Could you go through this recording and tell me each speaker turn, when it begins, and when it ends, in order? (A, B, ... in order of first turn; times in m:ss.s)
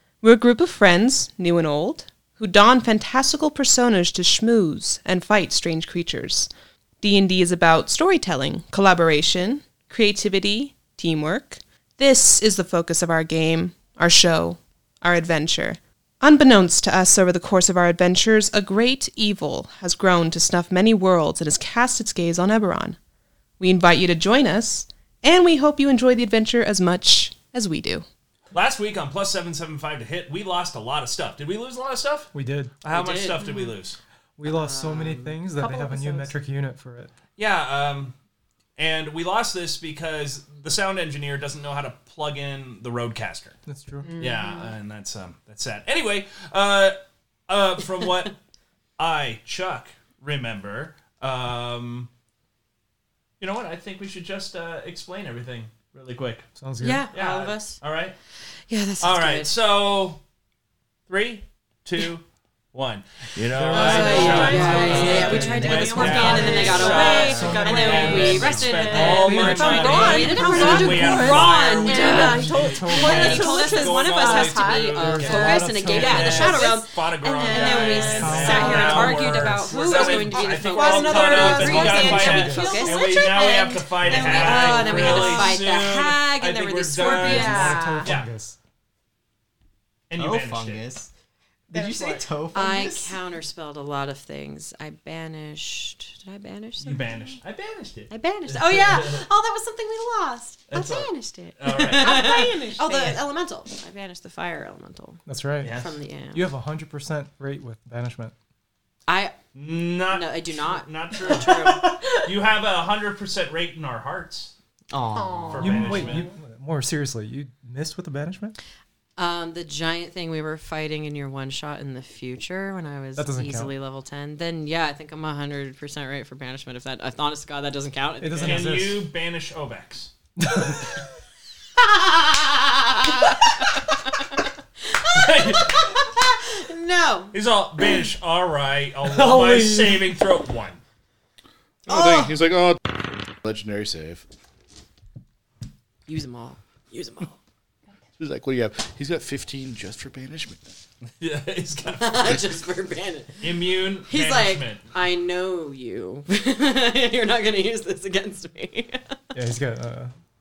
0:00.2-0:06.5 A
0:07.0-0:23.0 A
0:23.6-0:28.0 A
0:28.5-0:32.3 B
0:32.3-0:32.8 C
0:32.8-0:34.0 B
0:32.8-0:33.7 D
0:33.4-0:33.8 A
0:34.4-0:37.1 C
0:34.4-0:36.2 D
0:35.6-0:36.3 A
0:37.4-0:38.1 B
0:38.8-0:43.6 B
0:43.7-0:44.1 C
0:44.0-0:44.7 A
0:44.2-0:48.4 B
0:49.0-0:52.1 B
0:53.4-0:56.5 B
0:56.6-0:57.1 C
0:56.8-0:57.8 D
0:57.1-0:58.2 B
0:58.7-0:59.5 D
0:59.0-1:00.2 B
1:01.1-1:28.3 B
1:03.4-1:11.3 C
1:03.7-1:27.8 D
1:03.7-1:19.1 A
1:12.0-1:13.5 C
1:15.0-1:16.3 C
1:17.9-1:20.0 C
1:19.7-1:25.5 A
1:21.5-1:22.9 C
1:27.2-1:28.1 A
1:27.2-1:28.6 C
1:30.1-1:30.8 B
1:30.2-1:31.1 E
1:31.7-1:33.2 E
1:31.7-1:32.3 A
1:32.5-1:37.4 D
1:36.8-1:39.3 B
1:38.1-1:46.5 D
1:40.7-1:42.2 B
1:41.9-1:43.3 A
1:45.2-1:45.8 C
1:45.6-1:45.9 B
1:46.3-1:48.3 C
1:49.1-1:49.4 D
1:49.5-1:54.5 B
1:50.1-1:52.1 D
1:54.9-1:56.1 E
1:55.2-1:56.2 A
1:55.5-1:56.3 B
1:55.5-1:58.6 C
1:59.2-2:08.8 D
2:03.2-2:03.7 C
2:08.2-2:09.1 C
2:08.4-2:10.1 B
2:10.4-2:11.0 C
2:11.8-2:17.3 D
2:15.0-2:16.0 B
2:17.3-2:20.8 B
2:19.0-2:20.1 C
2:21.9-2:24.2 F
2:21.9-2:22.4 D
2:26.1-2:27.4 D
2:28.2-2:30.6 F
2:31.2-2:32.4 B
2:31.9-2:33.5 D
2:33.4-2:34.9 B
2:34.1-2:39.2 D
2:39.3-2:40.1 C